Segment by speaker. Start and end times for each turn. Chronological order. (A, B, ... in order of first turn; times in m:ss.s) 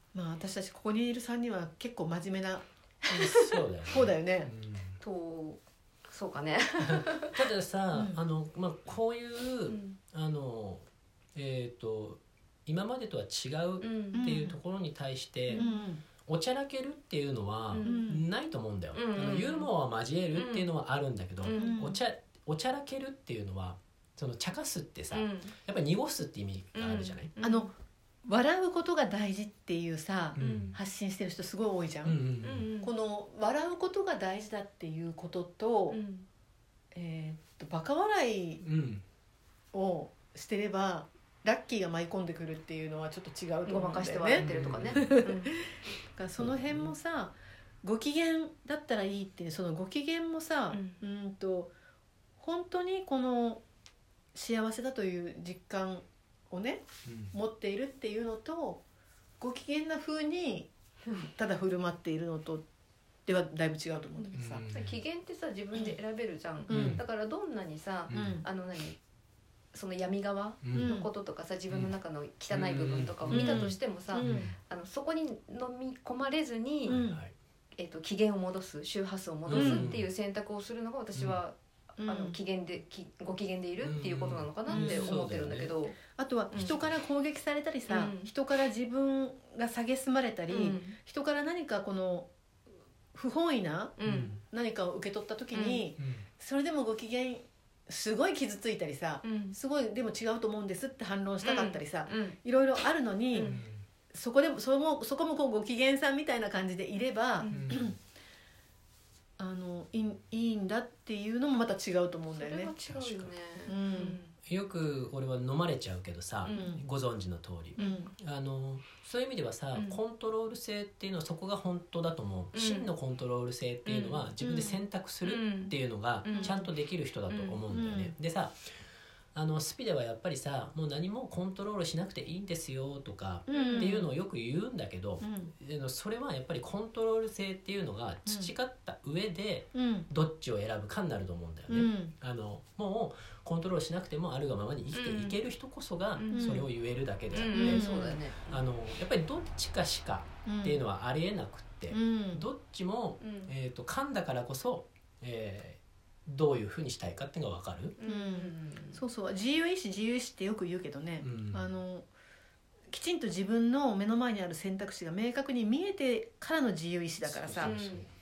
0:00.1-0:04.5 A
0:03.1-0:05.0 B
0:05.0-0:07.4 C
0:06.8-0:15.6 B
0:07.9-0:08.2 A
0:09.7-0:10.0 C
0:13.8-0:14.3 C
0:14.1-0:14.6 A
0:15.5-0:15.8 C
0:15.5-0:16.0 A
0:16.2-0:27.3 B
0:17.7-0:18.0 C
0:17.8-0:18.2 A
0:18.9-0:19.7 C
0:20.3-0:20.7 C
0:21.4-0:21.8 C
0:21.5-0:22.0 A
0:25.1-0:25.5 C
0:26.8-0:27.7 C
0:27.4-0:27.7 A
0:28.2-0:32.2 A
0:30.4-0:30.7 B
0:30.4-0:30.8 C
0:32.0-0:32.7 B
0:32.4-0:32.9 C
0:32.8-0:36.0 A
0:35.9-0:36.3 C
0:36.9-0:38.6 A
0:38.6-0:39.0 B
0:39.7-0:45.4 A
0:43.6-0:45.6 C
0:44.4-0:45.1 B
0:46.1-0:51.7 A
0:46.4-0:46.9 B
0:50.7-0:51.0 C
0:52.4-0:53.6 A
0:54.3-0:58.8 A
0:57.1-0:57.4 B
0:59.4-1:00.7 A
1:01.2-1:02.6 A
1:03.3-1:04.6 A
1:04.2-1:09.0 C
1:04.4-1:05.0 B
1:06.7-1:07.0 A
1:06.7-1:07.0 B
1:08.1-1:08.4 B
1:08.1-1:08.4 A
1:09.7-1:17.0 C
1:10.6-1:10.9 B
1:10.7-1:11.1 A
1:12.5-1:14.6 B
1:13.3-1:14.5 A
1:16.9-1:17.3 B
1:16.9-1:17.2 A
1:17.8-1:26.0 C
1:19.5-1:20.1 B
1:19.5-1:19.9 A
1:21.2-1:21.4 B
1:22.0-1:22.4 A
1:23.8-1:25.7 B
1:24.7-1:25.2 A
1:26.2-1:32.3 A
1:26.5-1:26.9 B
1:27.9-1:28.3 C
1:30.5-1:31.0 C
1:33.1-1:43.6 A
1:34.0-1:34.4 C
1:34.0-1:34.4 B
1:35.5-1:35.8 C
1:36.0-1:36.2 B
1:39.2-1:39.6 C
1:41.4-1:42.4 C
1:43.3-1:43.6 C
1:43.4-1:43.8 B
1:44.1-1:48.0 A
1:47.4-1:47.8 C
1:47.5-1:48.0 B
1:49.4-1:52.7 A
1:52.3-1:54.3 C
1:52.9-1:53.3 B
1:53.7-1:54.2 A
1:54.5-2:08.6 B
1:56.4-1:56.7 C
1:56.5-1:56.8 A
1:57.8-1:58.1 C
1:57.8-1:58.1 A
1:59.7-2:00.0 C
2:02.5-2:02.9 C
2:03.8-2:06.7 C
2:06.3-2:06.6 A
2:07.3-2:07.6 C
2:07.7-2:08.2 A
2:09.3-2:27.9 B
2:13.5-2:14.1 A
2:13.5-2:14.1 C
2:15.2-2:15.5 A
2:18.2-2:18.5 A
2:19.7-2:20.1 A
2:21.7-2:22.1 A
2:24.9-2:25.4 C
2:26.2-2:26.6 C
2:26.3-2:26.7 A
2:27.3-2:28.6 C
2:27.5-2:28.2 A
2:28.5-2:38.0 B
2:30.5-2:30.8 A
2:31.9-2:32.5 A
2:33.2-2:33.5 C
2:38.0-2:39.0 C
2:38.0-2:42.1 A
2:41.2-2:41.7 B
2:42.9-2:47.8 A
2:47.2-2:48.1 B
2:47.6-2:48.1 C